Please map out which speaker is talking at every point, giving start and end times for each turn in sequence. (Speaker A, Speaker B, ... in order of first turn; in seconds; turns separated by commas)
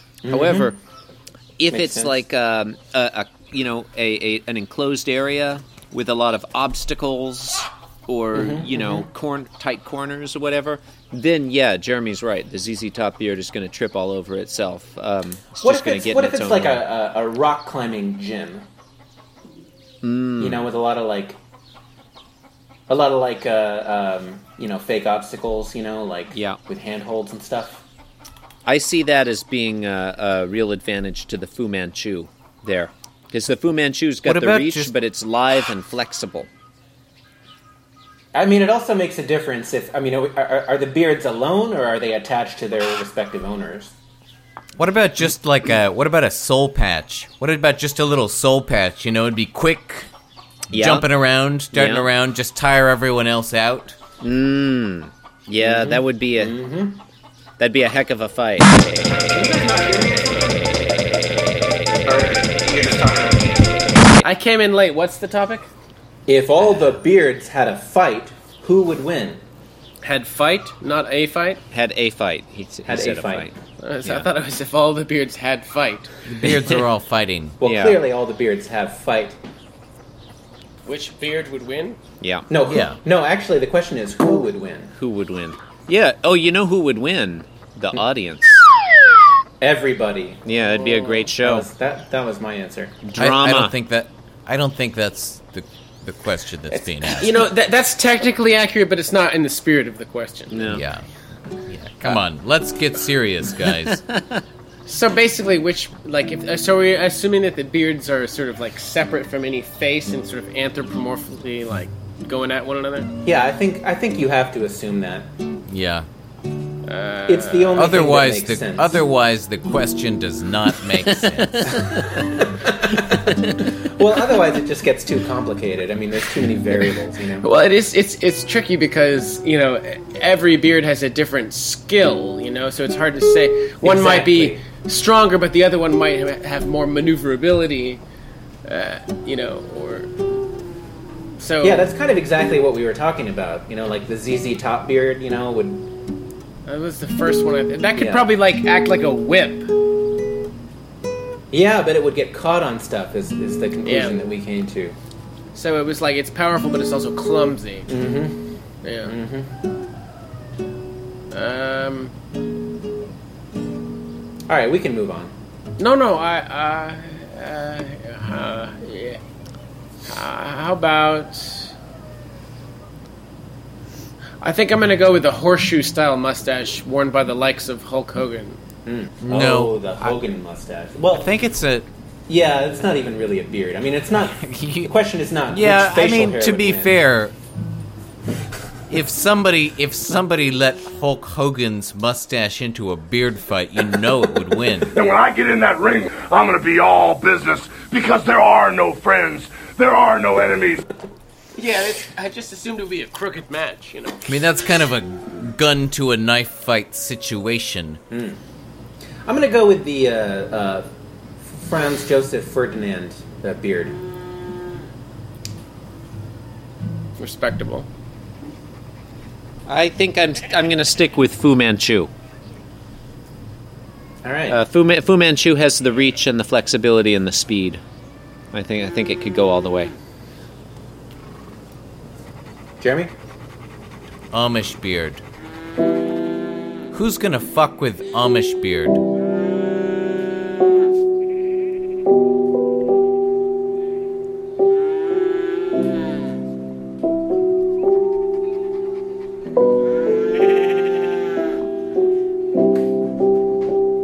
Speaker A: 0.2-0.8, Speaker B: 0.3-0.8, Speaker B: 1.6-16.8, Speaker A: 1.7-2.2, Speaker A: 8.3-9.1, Speaker A: 15.6-18.6, Speaker B: 20.0-20.6, Speaker A: 20.4-21.4, Speaker A: 22.9-27.8, Speaker B: 26.3-26.6, Speaker B: 28.7-36.5, Speaker C: 34.2-34.9, Speaker A: 38.3-43.9, Speaker C: 44.8-50.1, Speaker C: 50.7-54.0, Speaker B: 50.7-51.1, Speaker B: 51.7-52.1, Speaker B: 54.2-56.5, Speaker A: 55.6-57.0, Speaker B: 57.6-59.0, Speaker A: 59.3-60.6, Speaker A: 62.0-63.7, Speaker D: 64.2-65.7, Speaker A: 66.3-69.4, Speaker D: 70.0-71.6, Speaker B: 71.7-74.3, Speaker A: 72.9-73.5, Speaker D: 73.8-76.1, Speaker C: 76.3-77.6, Speaker A: 77.6-79.4, Speaker B: 77.6-78.0, Speaker D: 80.8-82.0, Speaker B: 82.2-82.5, Speaker A: 82.5-84.9, Speaker C: 82.7-83.0, Speaker B: 85.0-88.7, Speaker A: 89.6-90.5, Speaker B: 90.5-91.7, Speaker D: 90.8-91.2, Speaker A: 91.4-93.0, Speaker B: 93.0-93.8, Speaker C: 93.2-97.5, Speaker D: 96.7-100.7, Speaker B: 100.5-100.8, Speaker C: 100.7-101.1, Speaker C: 101.7-104.0, Speaker B: 103.7-104.4, Speaker D: 104.9-113.1, Speaker A: 113.2-115.3, Speaker C: 115.7-116.1, Speaker D: 116.9-117.8, Speaker A: 117.3-119.0, Speaker C: 117.8-121.8, Speaker B: 121.3-121.8, Speaker A: 121.9-127.5, Speaker D: 127.4-138.0, Speaker A: 133.8-134.6, Speaker D: 138.7-140.1, Speaker D: 141.4-141.9, Speaker A: 141.6-145.9, Speaker D: 146.7-149.7, Speaker A: 147.9-148.3, Speaker A: 151.5-155.0, Speaker D: 153.8-154.2, Speaker D: 155.5-157.9, Speaker A: 157.9-158.4, Speaker D: 158.8-159.2, Speaker A: 159.0-159.5, Speaker D: 161.3-162.1, Speaker A: 164.5-165.3, Speaker D: 165.8-169.2, Speaker D: 170.1-171.7, Speaker D: 174.4-178.6, Speaker A: 178.9-181.3, Speaker C: 179.2-180.2, Speaker C: 181.1-181.9, Speaker A: 182.3-187.0, Speaker C: 184.4-184.9, Speaker C: 185.5-187.4, Speaker C: 188.9-195.0, Speaker E: 195.0-200.8, Speaker D: 201.6-204.3, Speaker C: 204.3-208.0, Speaker A: 208.1-208.4, Speaker A: 209.3-210.9, Speaker A: 211.4-214.0, Speaker D: 217.2-217.9, Speaker B: 219.7-222.1, Speaker A: 224.2-224.6, Speaker B: 224.5-227.8, Speaker B: 228.5-229.9, Speaker A: 232.8-233.1, Speaker C: 234.3-235.2, Speaker C: 236.9-239.0